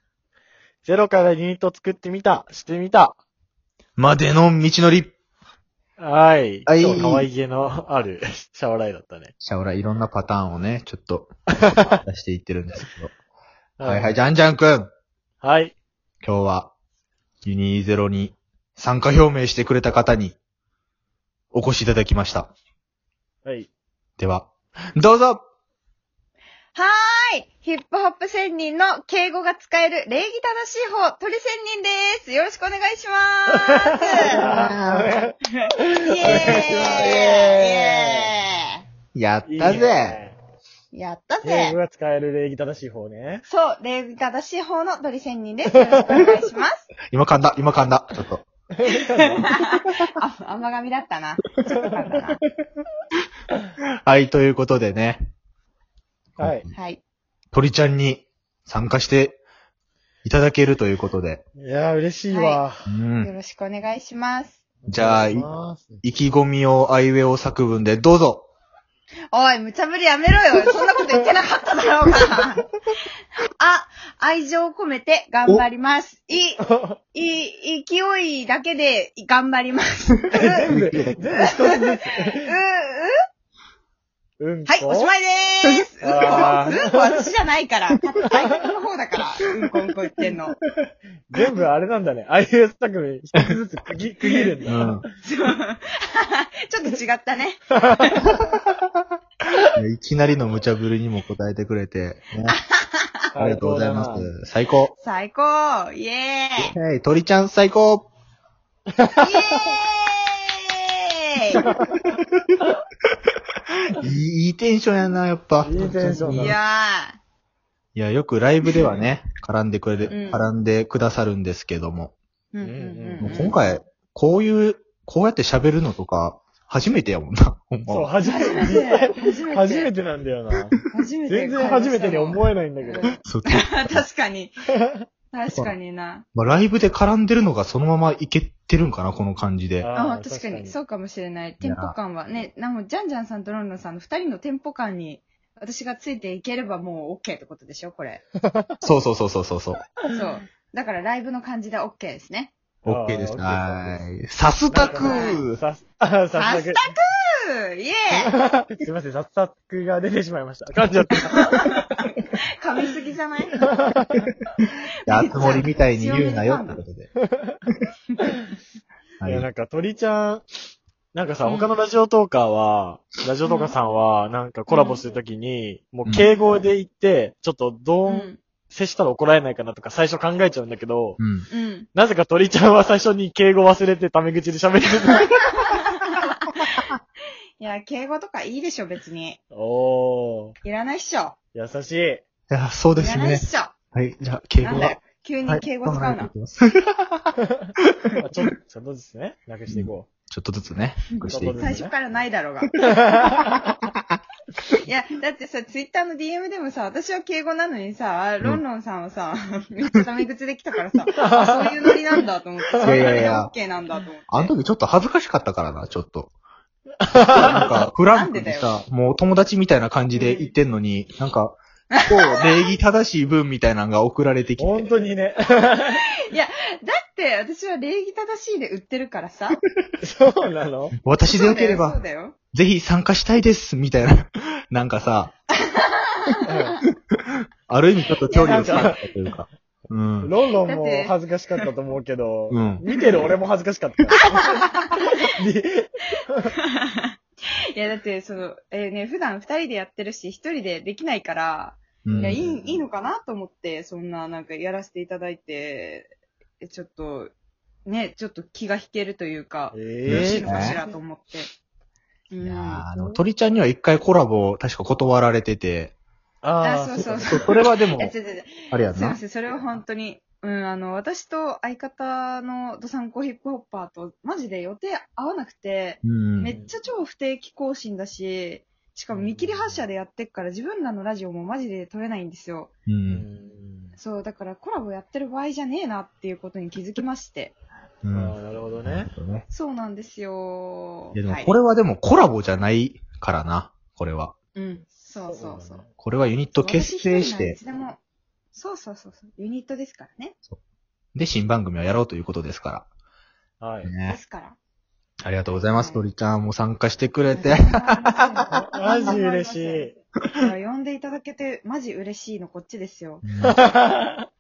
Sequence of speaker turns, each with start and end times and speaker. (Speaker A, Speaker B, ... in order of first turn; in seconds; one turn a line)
Speaker A: 0.8-3.2
Speaker B: 4.0-5.1
Speaker A: 6.0-9.3
Speaker B: 6.7-7.3
Speaker B: 9.4-13.1
Speaker A: 11.6-12.0
Speaker A: 13.8-14.2
Speaker B: 13.8-14.9
Speaker A: 15.4-15.7
Speaker B: 16.2-16.7
Speaker B: 17.4-20.4
Speaker B: 21.5-22.5
Speaker B: 24.2-25.4
Speaker C: 26.8-34.4
Speaker A: 33.5-38.3
Speaker B: 34.4-35.1
Speaker C: 35.6-38.8
Speaker B: 36.3-36.6
Speaker B: 39.1-40.2
Speaker A: 39.4-40.4
Speaker C: 40.9-41.8
Speaker A: 41.4-43.4
Speaker C: 43.5-46.9
Speaker B: 47.1-48.5
Speaker A: 48.8-49.5
Speaker C: 48.9-52.4
Speaker B: 54.0-55.2
Speaker B: 56.4-56.7
Speaker A: 56.4-56.7
Speaker C: 56.7-57.0
Speaker B: 57.5-59.4
Speaker B: 60.2-61.4
Speaker A: 61.6-62.9
Speaker C: 62.3-62.6
Speaker B: 62.9-63.3
Speaker C: 63.2-64.6
Speaker A: 64.8-66.0
Speaker B: 64.9-65.5
Speaker B: 66.0-68.5
Speaker C: 69.3-72.7
Speaker C: 73.6-76.6
Speaker A: 76.6-77.0
Speaker C: 77.1-80.7
Speaker A: 80.3-82.5
Speaker B: 80.7-81.2
Speaker C: 81.3-83.1
Speaker A: 84.4-85.1
Speaker C: 84.7-90.6
Speaker A: 86.0-87.3
Speaker A: 91.3-95.1
Speaker C: 94.2-94.5
Speaker B: 94.7-95.0
Speaker C: 95.2-98.5
Speaker B: 99.8-102.6
Speaker C: 102.5-103.3
Speaker A: 103.3-104.3
Speaker B: 103.4-104.9
Speaker C: 105.0-106.7
Speaker B: 106.6-108.1
Speaker A: 109.0-109.8
Speaker C: 109.2-111.7
Speaker A: 111.7-111.9
Speaker B: 112.2-112.6
Speaker B: 114.0-116.6
Speaker A: 115.6-116.5
Speaker C: 116.3-117.2
Speaker B: 118.0-122.1
Speaker C: 120.1-120.5
Speaker C: 122.5-123.8
Speaker A: 122.6-123.5
Speaker B: 123.2-128.1
Speaker A: 127.9-130.8
Speaker C: 128.2-129.9
Speaker C: 130.9-134.6
Speaker A: 131.3-133.2
Speaker B: 133.2-134.1
Speaker C: 135.3-136.3
Speaker B: 136.3-139.9
Speaker A: 139.8-140.8
Speaker C: 139.9-148.2
Speaker B: 141.6-141.9
Speaker B: 148.8-149.8
Speaker C: 150.1-152.5
Speaker B: 152.8-155.6
Speaker A: 152.8-154.0
Speaker A: 154.7-156.9
Speaker C: 154.9-155.4
Speaker C: 156.3-158.3
Speaker A: 158.2-161.7
Speaker C: 161.3-163.7
Speaker A: 163.6-164.2
Speaker B: 165.1-167.1
Speaker C: 165.1-166.8
Speaker A: 167.3-167.6
Speaker C: 168.1-168.4
Speaker B: 169.2-169.5
Speaker A: 169.2-170.5
Speaker A: 171.1-181.2
Speaker C: 171.4-171.7
Speaker C: 173.4-173.8
Speaker C: 174.7-175.0
Speaker C: 176.2-176.4
Speaker C: 178.1-178.4
Speaker B: 181.2-181.5
Speaker C: 181.5-181.9
Speaker A: 181.9-185.3
Speaker C: 185.7-186.9
Speaker C: 187.6-189.4
Speaker A: 189.5-190.6
Speaker C: 190.6-191.3
Speaker A: 191.5-192.2
Speaker B: 192.5-197.9
Speaker C: 192.9-193.7
Speaker C: 194.6-196.3
Speaker A: 198.2-200.1
Speaker B: 199.7-201.7
Speaker C: 201.1-202.8
Speaker A: 201.3-201.9
Speaker A: 202.8-203.4
Speaker B: 203.2-203.7
Speaker C: 204.8-214.5
Speaker A: 211.3-211.7
Speaker A: 212.8-213.1
Speaker B: 212.8-213.5
Speaker B: 214.3-216.3
Speaker A: 217.1-217.7
Speaker B: 217.2-224.9
Speaker C: 218.0-218.7
Speaker A: 220.1-220.5
Speaker C: 221.9-222.7
Speaker A: 224.6-226.0
Speaker C: 226.3-229.6
Speaker A: 230.0-230.9
Speaker B: 231.0-232.0
Speaker C: 231.2-232.4
Speaker B: 232.5-235.3
Speaker C: 235.6-236.5
Speaker A: 236.5-236.8
Speaker B: 237.7-240.3
Speaker C: 238.3-238.9
Speaker A: 238.4-239.1
Speaker A: 240.2-244.4
Speaker C: 240.6-241.7
Speaker B: 242.5-242.9
Speaker C: 244.2-245.2
Speaker A: 245.2-246.5
Speaker C: 246.7-247.1
Speaker C: 247.7-257.3
Speaker B: 252.0-252.4
Speaker A: 252.1-252.8
Speaker C: 257.9-261.5
Speaker A: 259.7-260.9
Speaker B: 260.1-260.8
Speaker C: 262.3-262.9
Speaker B: 262.4-265.9
Speaker A: 266.4-267.5
Speaker C: 266.6-282.7
Speaker B: 267.2-268.1
Speaker B: 268.7-269.2
Speaker B: 276.0-276.5
Speaker A: 279.1-279.8
Speaker B: 282.9-283.3
Speaker A: 283.1-284.0
Speaker C: 284.0-287.6
Speaker B: 288.0-289.5
Speaker A: 288.1-289.1
Speaker C: 289.5-291.6
Speaker B: 291.1-294.3
Speaker C: 294.6-295.8
Speaker A: 295.2-295.9
Speaker B: 296.0-297.6
Speaker C: 296.6-298.0
Speaker C: 298.5-300.4
Speaker B: 301.1-302.9
Speaker A: 303.6-303.9
Speaker B: 303.8-304.2
Speaker C: 304.1-304.6
Speaker B: 305.2-308.3
Speaker C: 305.5-306.1
Speaker C: 307.3-313.2
Speaker A: 308.5-309.9
Speaker B: 313.2-313.6
Speaker A: 313.4-314.3